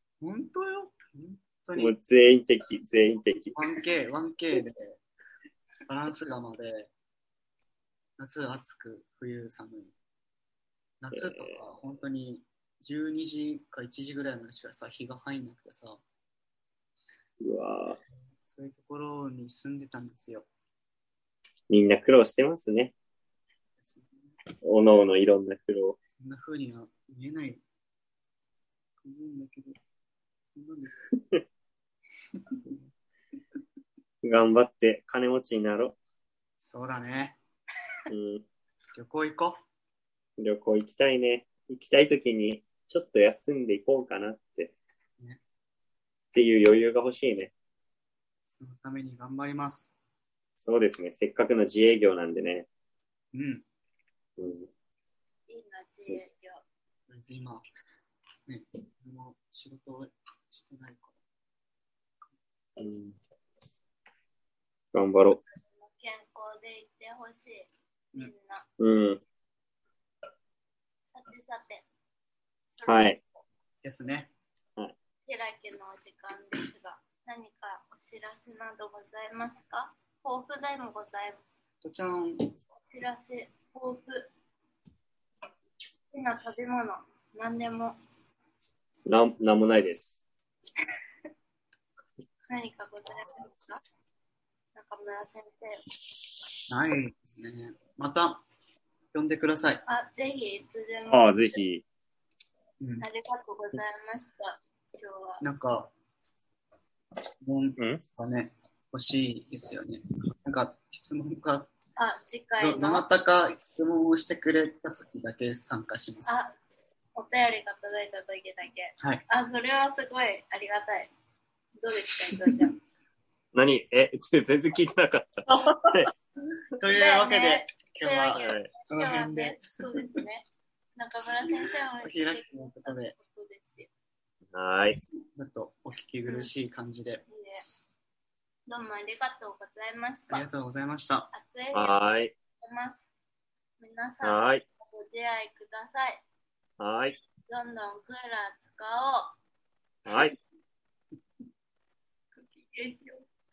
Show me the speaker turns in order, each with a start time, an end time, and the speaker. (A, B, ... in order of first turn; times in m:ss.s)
0:00.2-0:01.9 A
0:01.8-0:03.6 B
0:03.5-0:05.0 A
0:05.9-0:06.9 A
0:08.2-0:09.9 A
0:11.0-0:16.0 A
0:11.1-0:11.5 B
0:17.4-0:18.0 B
0:18.4-0:20.5 A
0:21.7-0:22.9 B
0:23.8-0:24.3 A
0:24.6-0:26.0 B
0:26.2-0:27.6 A
0:29.0-0:29.8 A
0:30.5-0:31.1 A
0:31.1-0:31.4 B
0:32.3-0:32.8 A
0:34.2-0:36.0 B
0:36.6-0:37.4 A
0:38.1-0:38.4 B
0:38.9-0:39.6 A
0:40.4-0:44.7 B
0:46.3-0:47.5 B
0:48.6-0:50.0 A
0:50.6-0:52.7 B
0:53.3-0:53.6 A
0:54.4-0:54.7 B
0:55.5-0:56.6 C
0:57.1-0:57.6 A
0:58.5-1:01.2 A
1:02.8-1:03.2 B
1:04.9-1:05.4 B
1:05.7-1:08.6 C
1:08.8-1:09.2 B
1:11.1-1:11.8 C
1:12.7-1:13.2 C
1:12.8-1:13.2 B
1:13.8-1:14.3 A
1:15.2-1:21.4 C
1:21.8-1:22.5 A
1:22.8-1:24.3 C
1:26.1-1:28.0 C
1:29.0-1:30.2 B
1:32.5-1:33.8 C
1:34.7-1:35.8 C
1:36.7-1:38.4 A
1:39.1-1:39.8 A
1:39.8-1:41.6 C
1:41.1-1:41.8 B
1:42.8-1:43.1 A
1:43.0-1:45.4 C
1:45.4-1:45.9 A
1:47.4-1:51.7 A
1:47.8-1:48.0 B
1:52.0-1:53.0 C
1:52.6-1:56.4 A
1:56.2-1:56.5 C
1:57.2-2:01.1 C
1:59.0-1:59.2 A
2:01.8-2:02.8 C
2:03.5-2:06.1 B
2:05.5-2:06.1 A
2:06.8-2:10.2 A
2:06.9-2:10.4 C
2:08.4-2:08.7 B
2:11.0-2:13.9 C
2:12.0-2:13.1 A
2:14.5-2:15.0 B
2:15.3-2:17.2 A
2:17.3-2:17.6 C
2:18.7-2:20.5 C
2:20.3-2:21.3 A
2:21.3-2:22.0 C
2:21.7-2:22.3 B
2:22.6-2:23.1 C
2:23.8-2:26.2 C
2:24.2-2:24.6 B
2:26.8-2:27.2 B
2:27.5-2:29.4 C
2:30.0-2:30.3 B
2:32.4-2:33.3 C